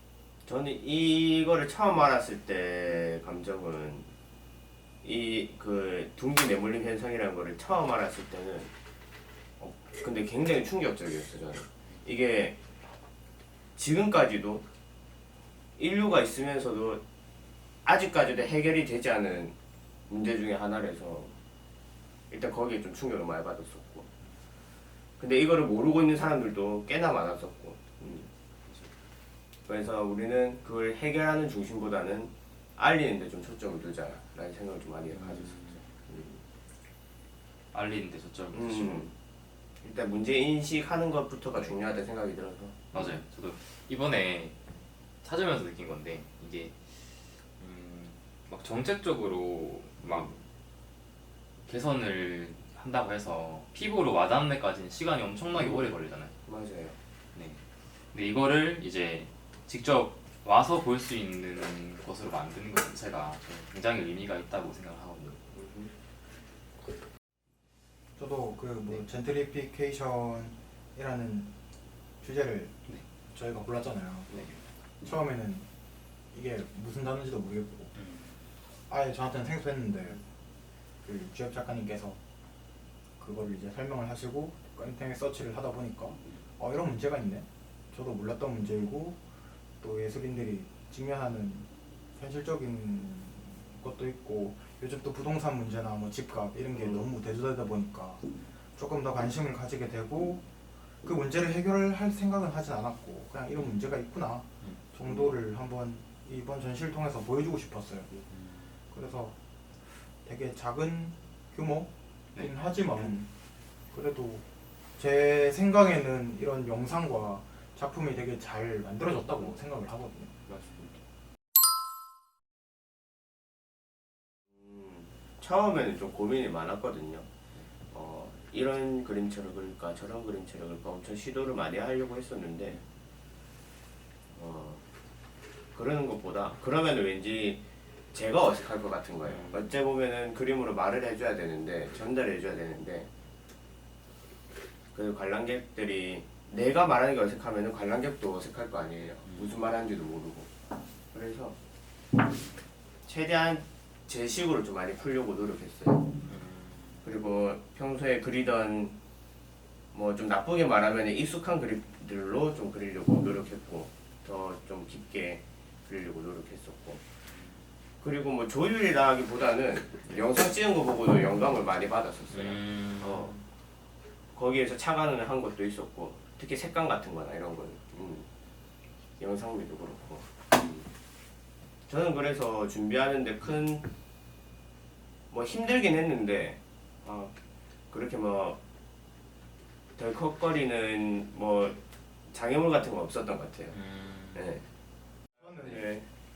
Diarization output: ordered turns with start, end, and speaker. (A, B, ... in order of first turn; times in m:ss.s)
0:00.4-0:04.1 A
0:05.0-0:08.7 A
0:09.6-0:12.6 A
0:13.8-0:14.6 A
0:15.8-0:17.0 A
0:17.8-0:19.6 A
0:20.1-0:21.4 A
0:22.3-0:24.1 A
0:25.2-0:28.3 A
0:29.7-0:36.4 A
0:35.1-0:35.8 B
0:37.7-0:39.1 B
0:38.5-0:39.1 A
0:39.8-0:43.1 A
0:42.9-0:44.6 B
0:45.2-0:50.4 B
0:50.1-0:50.4 A
0:51.7-0:56.3 B
0:55.5-0:55.9 A
0:56.4-0:57.0 A
0:57.4-0:57.6 B
0:58.1-1:05.4 B
1:05.5-1:05.9 A
1:08.2-1:11.5 C
1:12.2-1:12.7 C
1:13.3-1:14.5 C
1:15.0-1:15.7 C
1:16.3-1:17.9 C
1:18.0-1:18.4 B
1:18.9-1:20.2 C
1:21.0-1:22.2 C
1:23.2-1:29.2 C
1:29.8-1:40.4 C
1:36.8-1:37.1 A
1:41.0-1:48.1 C
1:45.1-1:45.3 A
1:48.3-1:48.7 B
1:48.9-1:49.4 C
1:50.2-1:53.3 C
1:53.9-1:54.4 C
1:55.0-2:00.3 C
2:00.5-2:01.0 A
2:04.6-2:07.3 A
2:07.9-2:12.8 A
2:14.3-2:14.8 A
2:15.7-2:23.1 A
2:19.2-2:19.7 B
2:24.9-2:30.5 A
2:29.3-2:29.5 B
2:31.1-2:31.6 A
2:33.0-2:36.1 A
2:36.3-2:37.1 B
2:37.0-2:39.0 A
2:39.9-2:47.0 A
2:48.0-2:53.4 A
2:52.3-2:53.4 B
2:54.4-2:58.3 A
2:59.2-3:00.9 A
3:01.9-3:03.9 A
3:05.3-3:07.4 A
3:07.9-3:08.6 A
3:10.0-3:13.8 A
3:13.7-3:14.6 B
3:14.3-3:14.6 A
3:15.4-3:15.9 C
3:15.6-3:16.0 A